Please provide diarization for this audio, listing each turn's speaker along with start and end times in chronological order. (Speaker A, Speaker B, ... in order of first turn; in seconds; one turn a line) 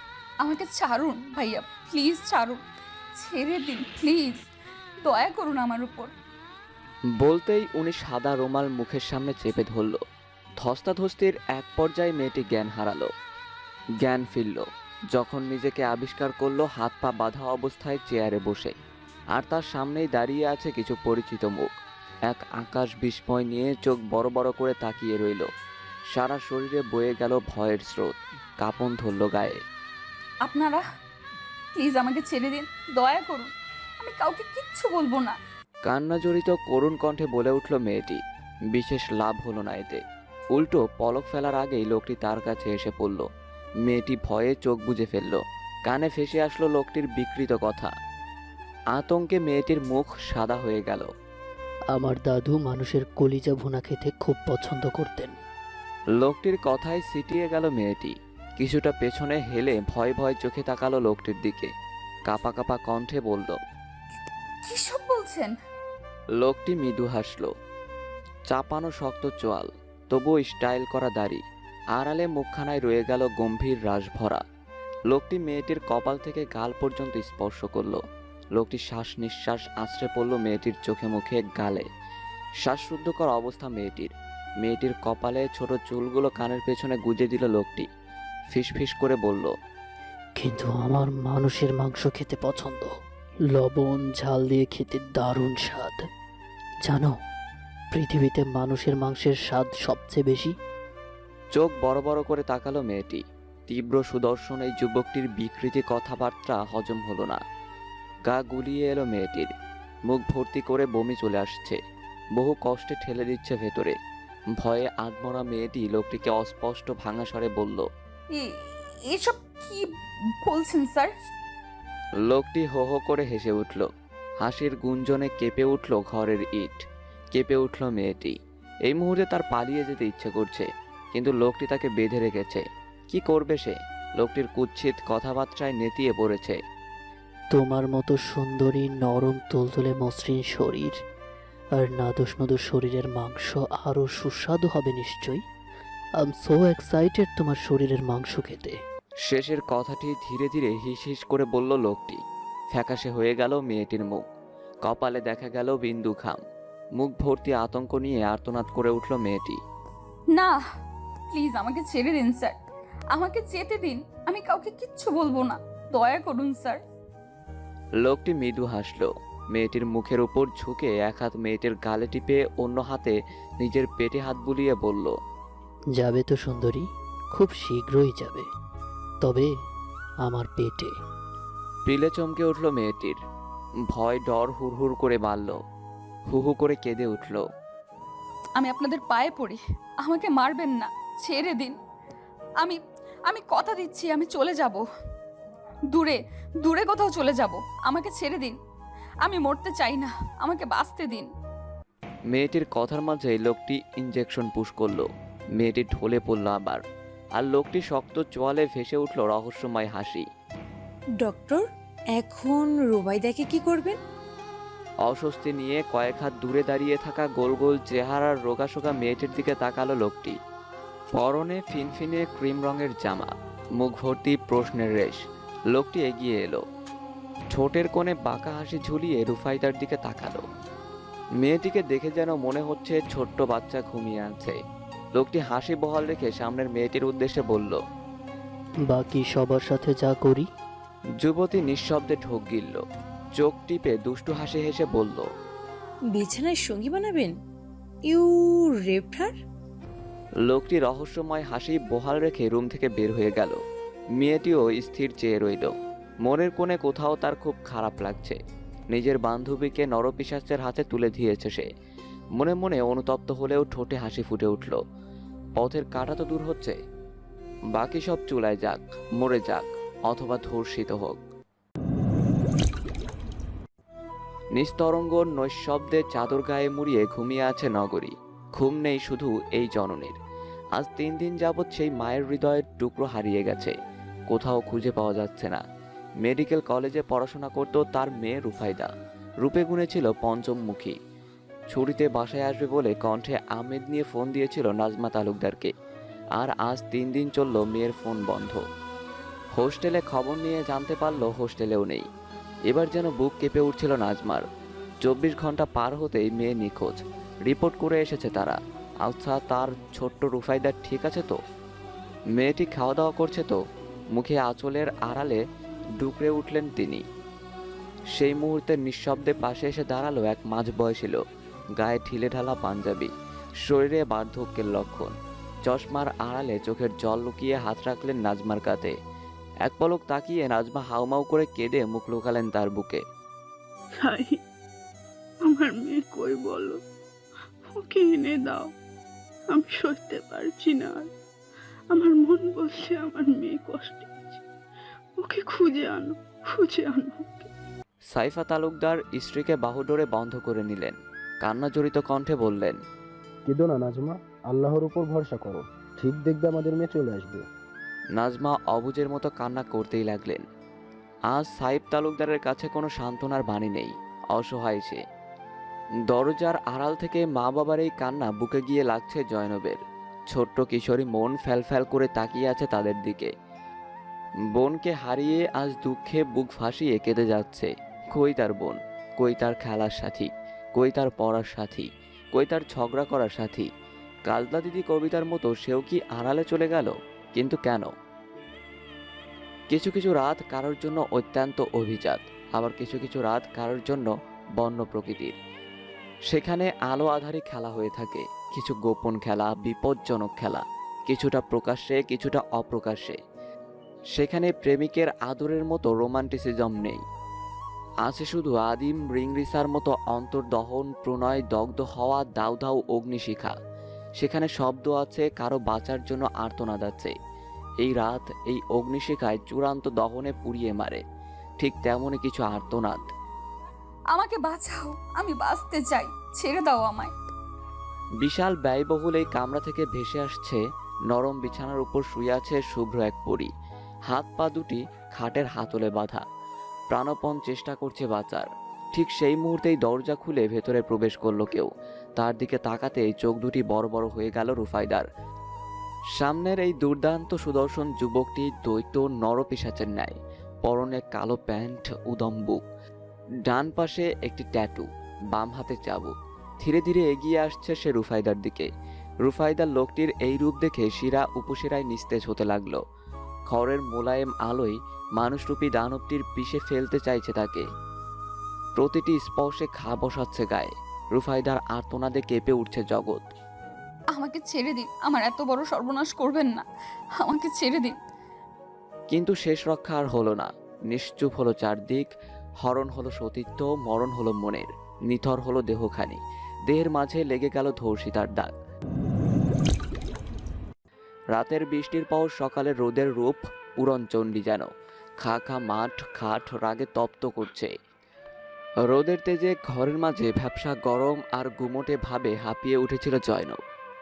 Speaker A: 0.4-2.6
Speaker A: 3.2-4.4
Speaker A: 5.0-6.1
Speaker B: 7.2-10.0
Speaker B: 10.6-13.1
Speaker B: 14.0-18.7
Speaker B: 19.3-21.7
Speaker B: 22.3-25.5
Speaker B: 26.1-29.6
Speaker A: 30.4-30.8
Speaker A: 31.7-35.4
Speaker B: 35.8-38.2
Speaker B: 38.7-40.0
Speaker B: 40.5-43.2
Speaker B: 43.8-47.9
Speaker B: 48.9-51.1
Speaker C: 51.9-55.4
Speaker B: 56.1-61.7
Speaker B: 62.3-63.6
Speaker A: 64.6-65.5
Speaker B: 66.4-67.5
Speaker B: 68.5-71.4
Speaker B: 71.9-74.4
Speaker B: 75.1-78.0
Speaker B: 78.5-81.8
Speaker B: 82.6-87.9
Speaker B: 88.5-89.5
Speaker C: 90.4-92.9
Speaker C: 93.5-96.0
Speaker C: 96.8-97.1
Speaker C: 97.9-100.5
Speaker B: 101.5-107.4
Speaker B: 108.3-109.5
Speaker B: 110.1-111.8
Speaker B: 112.3-113.9
Speaker B: 114.6-117.8
Speaker A: 118.3-119.9
Speaker A: 120.4-121.1
Speaker B: 122.2-123.9
Speaker B: 124.4-128.3
Speaker B: 128.9-136.6
Speaker C: 137.5-141.0
Speaker C: 141.8-145.4
Speaker C: 146.2-148.8
Speaker B: 149.2-152.2
Speaker B: 152.7-154.2
Speaker B: 154.8-156.4
Speaker B: 157.0-159.6
Speaker A: 161.3-162.6
Speaker A: 163.1-166.8
Speaker B: 168.0-175.1
Speaker C: 175.9-178.5
Speaker C: 179.2-179.5
Speaker C: 180.2-180.9
Speaker B: 181.8-183.2
Speaker B: 183.9-185.6
Speaker B: 186.3-187.4
Speaker A: 188.6-191.7
Speaker A: 192.6-194.8
Speaker A: 195.9-198.6
Speaker A: 199.2-201.3
Speaker B: 202.3-205.1
Speaker B: 205.6-206.8
Speaker B: 207.4-210.2
Speaker D: 211.2-213.9
Speaker B: 215.0-220.4
Speaker B: 221.1-225.2
Speaker B: 225.7-226.6
Speaker B: 227.5-230.4
Speaker B: 231.4-234.6
Speaker B: 235.2-237.8
Speaker C: 238.9-240.5
Speaker B: 241.2-242.8
Speaker B: 243.3-245.3
Speaker D: 246.1-247.3
Speaker D: 248.1-249.3
Speaker B: 250.4-253.6
Speaker B: 254.2-255.7
Speaker B: 256.2-258.4
Speaker B: 258.9-261.7
Speaker B: 262.4-264.8
Speaker B: 265.6-266.8
Speaker B: 267.7-271.2
Speaker B: 274.5-280.1
Speaker B: 280.8-283.7
Speaker B: 284.3-285.6
Speaker B: 286.2-288.9
Speaker B: 289.4-290.9
Speaker B: 291.7-295.7
Speaker B: 296.4-298.6
Speaker B: 299.5-302.0
Speaker B: 302.7-304.4
Speaker B: 305.0-311.4
Speaker B: 312.3-313.6
Speaker B: 314.1-315.4
Speaker B: 316.0-317.0
Speaker B: 318.1-321.2
Speaker B: 321.8-325.1
Speaker B: 325.6-328.9
Speaker B: 329.6-333.0
Speaker E: 334.0-334.4
Speaker E: 335.4-336.8
Speaker E: 337.7-338.7
Speaker E: 339.5-341.1
Speaker E: 341.9-344.4
Speaker E: 345.2-347.5
Speaker B: 348.1-352.8
Speaker F: 353.4-357.4
Speaker B: 358.1-360.4
Speaker B: 361.3-365.0
Speaker B: 366.1-369.8
Speaker B: 370.3-373.3
Speaker B: 374.6-383.7
Speaker B: 384.3-387.9
Speaker B: 389.7-395.4
Speaker B: 396.3-403.2
Speaker B: 404.1-407.0
Speaker B: 408.0-413.5
Speaker B: 414.2-417.1
Speaker B: 417.8-421.0
Speaker B: 421.6-423.1
Speaker A: 424.1-427.1
Speaker B: 428.2-430.6
Speaker B: 431.1-433.5
Speaker B: 434.1-436.2
Speaker B: 436.9-445.1
Speaker B: 446.2-452.6
Speaker B: 453.5-458.7
Speaker B: 459.2-462.8
Speaker B: 463.5-467.6
Speaker B: 468.8-473.3
Speaker A: 474.1-476.6
Speaker A: 477.2-477.9
Speaker B: 479.1-482.1
Speaker B: 482.6-488.5
Speaker B: 491.3-494.7
Speaker B: 495.2-497.7
Speaker B: 498.9-503.6